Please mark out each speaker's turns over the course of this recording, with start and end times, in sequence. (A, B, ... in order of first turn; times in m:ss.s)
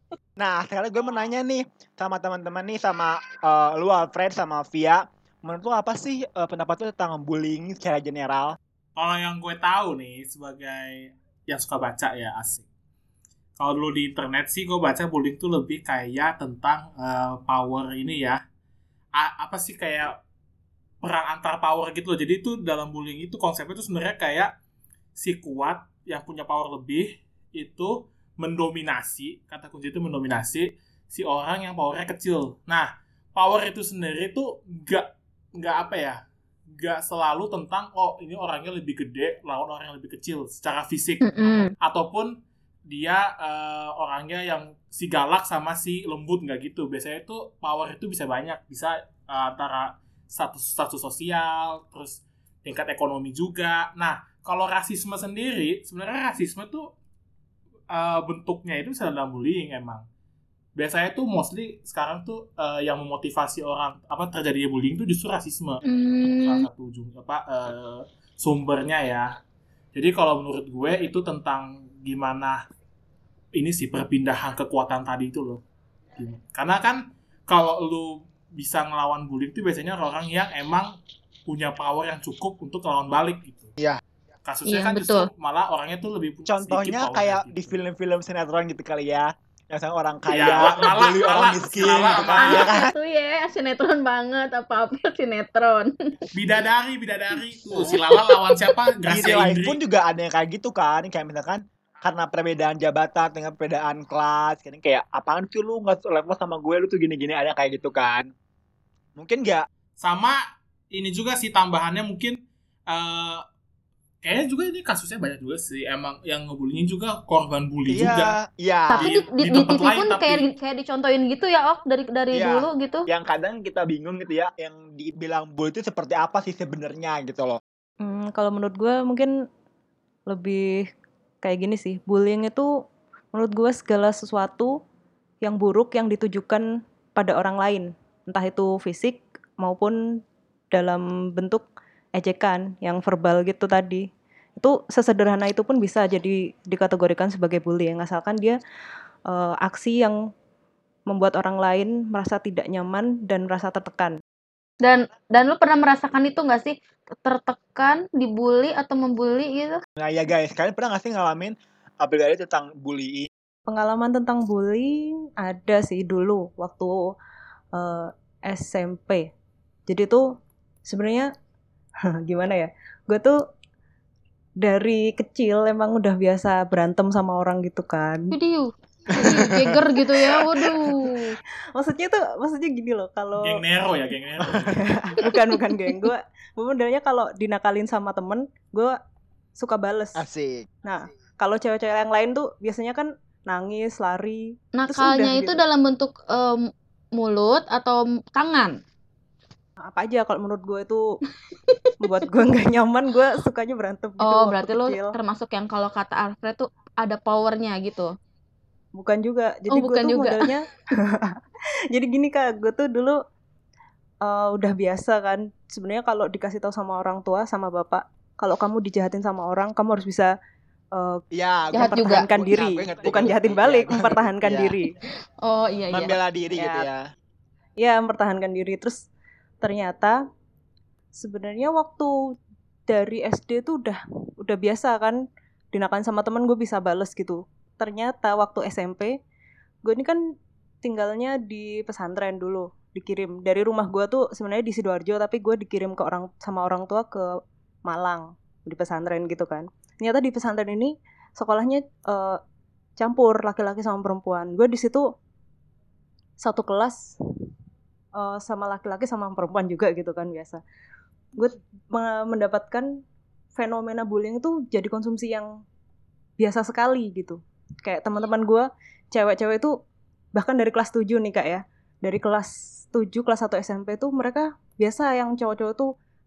0:00.4-0:08.6 A
0:09.0-0:12.6 B
0:13.6-0:18.4 B
0:19.2-0:20.1 B
0:21.0-0:24.5 B
0:25.2-0:36.2 B
0:36.8-0:41.2 B
0:41.2-0:41.7 C
0:41.8-0:42.3 B
0:42.9-0:56.9 B
0:57.9-1:00.0 B
1:00.8-1:09.3 B
1:05.8-1:06.6 C
1:09.9-1:12.6 B
1:13.6-1:15.6 B
1:16.2-1:20.9 B
1:21.5-1:23.7 B
1:24.4-1:27.7 B
1:24.6-1:25.3 C
1:26.4-1:32.9 A
1:30.3-1:32.7 B
1:32.0-1:35.9 C
1:36.3-1:39.8 B
1:37.8-1:38.4 C
1:39.1-1:48.3 A
1:49.2-1:49.6 A
1:50.0-1:50.4 B
1:50.9-1:52.4 B
1:52.9-1:53.4 B
1:54.2-1:58.3 B
1:57.9-1:59.0 A
1:58.9-2:03.1 C
1:59.0-2:00.4 B
2:02.3-2:07.6 A
2:08.0-2:09.3 D
2:10.3-2:10.9 D
2:11.4-2:12.7 D
2:13.3-2:14.7 D
2:15.4-2:20.0 D
2:20.7-2:21.6 D
2:22.2-2:24.0 D
2:24.6-2:28.6 D
2:29.3-2:30.2 D
2:31.1-2:34.2 D
2:34.8-2:39.8 C
2:40.0-2:43.3 A
2:43.7-2:47.0 D
2:47.7-2:49.3 D
2:49.9-2:50.3 D
2:50.8-2:51.3 D
2:52.0-2:53.4 D
2:54.6-2:58.3 D
2:58.3-3:01.4 C
2:59.2-2:59.7 A
3:01.7-3:03.6 D
3:03.4-3:04.9 B
3:04.6-3:08.9 D
3:09.6-3:10.2 D
3:10.2-3:10.7 A
3:10.8-3:15.6 D
3:14.7-3:18.8 C
3:19.8-3:21.0 D
3:21.5-3:21.9 C
3:22.0-3:25.1 D
3:24.2-3:28.1 C
3:29.0-3:31.4 D
3:29.7-3:30.5 C
3:31.9-3:33.2 D
3:34.2-3:40.3 D
3:40.9-3:41.2 D
3:41.3-3:44.8 A
3:41.7-3:42.3 C
3:41.8-3:44.9 D
3:45.4-3:46.2 C
3:45.9-3:47.0 A
3:46.5-3:46.9 D
3:47.8-3:49.0 D
3:49.6-3:50.2 D
3:51.2-3:52.1 D
3:52.9-3:55.2 D
3:55.7-3:59.2 D
3:59.8-4:00.2 D
4:00.8-4:07.3 D
4:07.8-4:12.4 D
4:13.0-4:15.0 D
4:16.4-4:17.1 D
4:18.1-4:20.6 D
4:21.4-4:23.0 D
4:23.6-4:25.5 D
4:26.4-4:29.7 D
4:30.4-4:35.9 D